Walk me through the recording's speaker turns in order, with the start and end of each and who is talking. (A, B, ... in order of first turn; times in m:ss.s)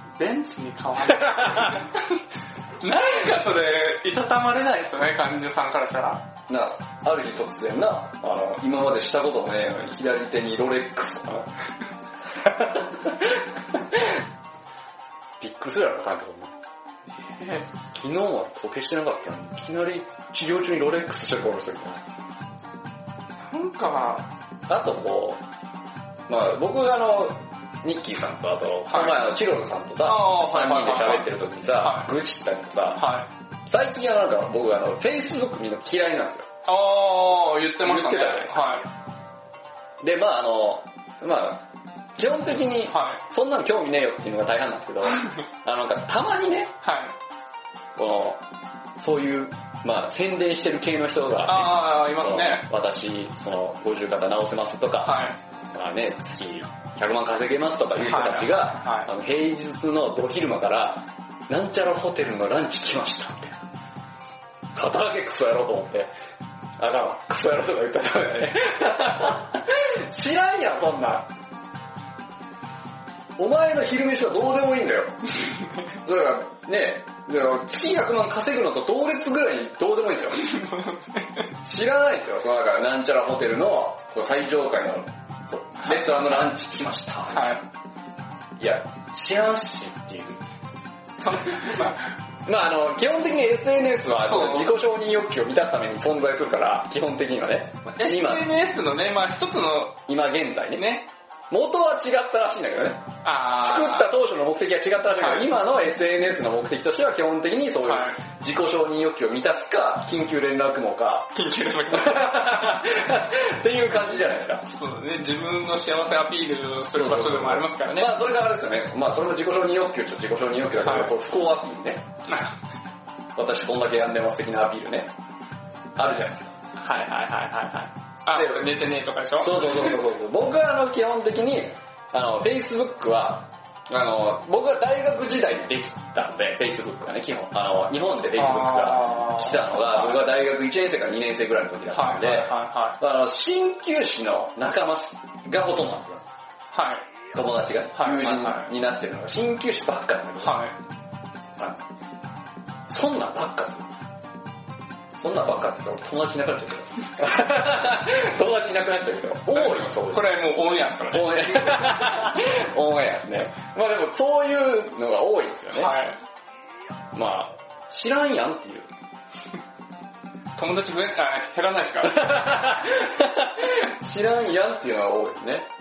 0:00.2-0:02.2 A
0:01.2-0:01.8 B
0:02.8-0:06.2 A
0:06.5-0:11.5 B
0:12.3-0:14.2 B
0:15.4-0:16.5 B
0:17.2-0:17.7 A
0:17.9-0:22.0 B
0:23.4-0:24.3 A
0:24.7-0:25.4 B
0:26.3-0:33.1 B
0:28.9-0:29.4 A
0:30.0-0:32.1 A
0:33.0-0:33.3 A
0:33.7-0:36.5 B
0:36.7-0:38.9 A
0:37.8-0:38.8 B
0:40.0-0:41.6 B
0:42.2-0:46.7 B
0:42.9-0:43.2 A
0:46.8-0:47.1 A
0:48.0-0:48.4 B
0:49.0-1:03.6 B
0:51.4-0:52.7 A
0:55.0-0:55.4 A
0:58.0-0:59.1 A
1:04.7-1:06.1 B
1:06.8-1:11.3 B
1:13.4-1:15.2 B
1:16.0-1:20.6 B
1:20.4-1:21.4 A
1:21.6-1:27.6 B
1:25.8-1:26.5 A
1:27.3-1:27.6 A
1:28.6-1:30.4 B
1:31.2-1:32.1 A
1:32.4-1:38.5 B
1:34.2-1:34.7 A
1:38.0-1:40.0 A
1:40.1-1:40.9 B
1:40.8-1:41.1 A
1:41.5-1:51.3 B
1:43.2-1:44.1 A
1:45.2-1:45.5 A
1:47.8-1:48.2 A
1:51.3-1:52.6 A
1:51.9-1:54.6 B
1:54.7-1:58.1 A
1:56.9-2:02.1 B
2:00.8-2:01.1 A
2:02.3-2:02.6 A
2:03.4-2:05.1 B
2:06.0-2:06.5 B
2:06.8-2:10.0 A
2:08.3-2:08.7 B
2:09.4-2:26.2 B
2:18.4-2:20.2 A
2:21.9-2:23.0 A
2:26.7-2:27.0 A
2:27.3-2:30.6 B
2:28.0-2:28.7 A
2:30.4-2:30.8 A
2:32.9-2:33.9 B
2:35.2-2:40.3 B
2:39.5-2:42.4 A
2:41.1-2:45.9 B
2:45.7-2:46.2 A
2:47.1-2:48.9 B
2:50.6-2:52.7 A
2:52.0-2:55.7 B